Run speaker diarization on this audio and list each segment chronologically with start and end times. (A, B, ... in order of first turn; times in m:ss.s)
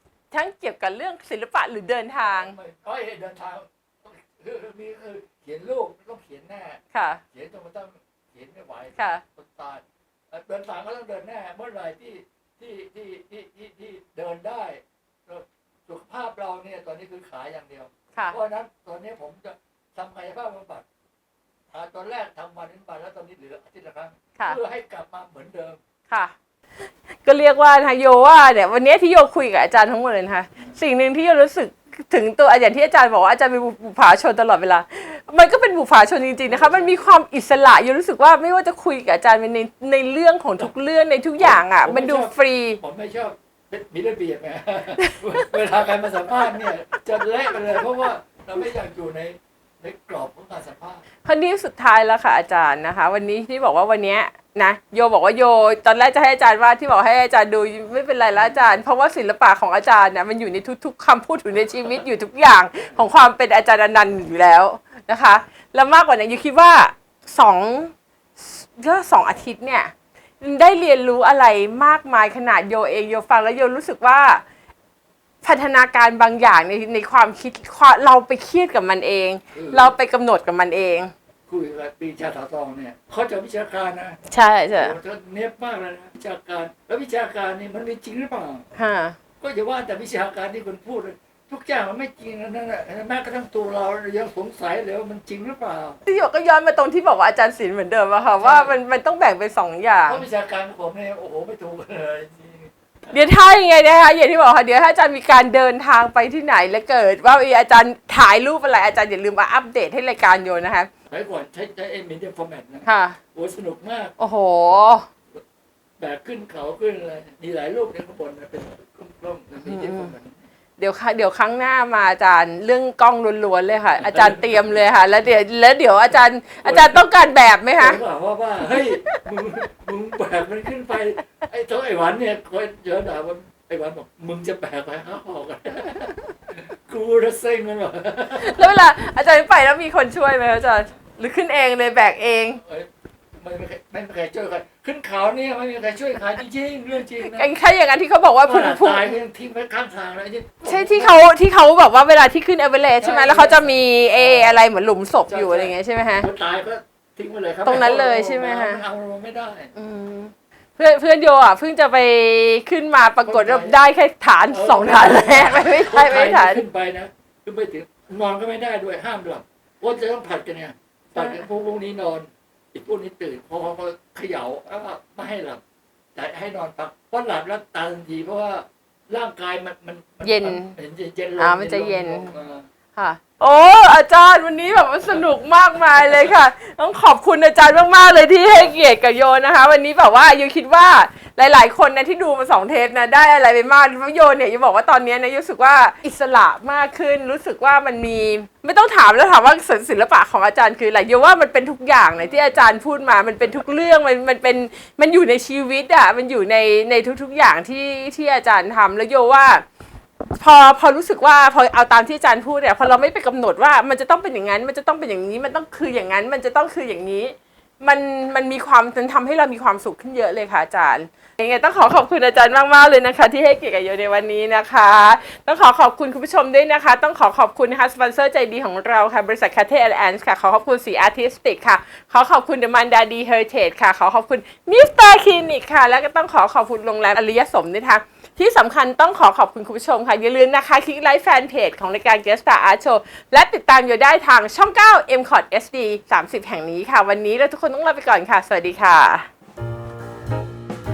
0:00.3-0:02.6 A
0:02.2-0:06.8 B
0:06.9-0:07.2 A
0:07.3-0:20.8 B
0:09.0-0:09.2 A
0:21.7-0:25.8 B
0:26.1-0:26.3 A
0:27.2-0:42.8 A
0:36.4-0:37.0 B
0:41.4-0:51.0 B
0:45.0-0:45.5 A
0:51.2-1:14.4 A
0:58.3-0:58.6 B
1:15.4-1:21.1 A
1:19.5-1:20.0 B
1:21.5-1:24.2 B
1:24.3-1:25.0 A
1:24.8-1:28.6 B
1:28.8-1:29.2 A
1:29.4-1:36.0 B
1:36.0-1:40.3 A
1:38.4-1:38.8 B
1:40.1-1:43.2 B
1:43.1-1:50.9 A
1:51.1-1:54.1 B
1:52.8-1:53.2 A
1:54.2-1:55.1 A
1:56.0-2:00.4 B
1:59.6-2:00.1 A
2:00.8-2:08.0 A
2:04.0-2:04.6 B
2:06.6-2:07.0 B
2:07.8-2:18.6 B
2:08.7-2:09.2 A
2:18.3-2:22.6 A
2:23.4-2:27.4 B
2:27.2-2:29.2 A
2:28.4-2:31.2 B
2:30.6-2:36.3 A
2:33.0-2:34.6 B
2:35.2-2:39.7 B
2:37.6-2:38.8 A
2:39.7-2:46.6 A
2:43.2-2:43.8 B
2:44.5-2:55.6 B
2:51.1-2:51.5 A
2:56.2-3:02.6 B
3:00.2-3:00.7 A
3:01.4-3:02.4 A
3:03.0-3:29.6 A
3:22.2-3:22.5 B
3:30.4-4:09.3 A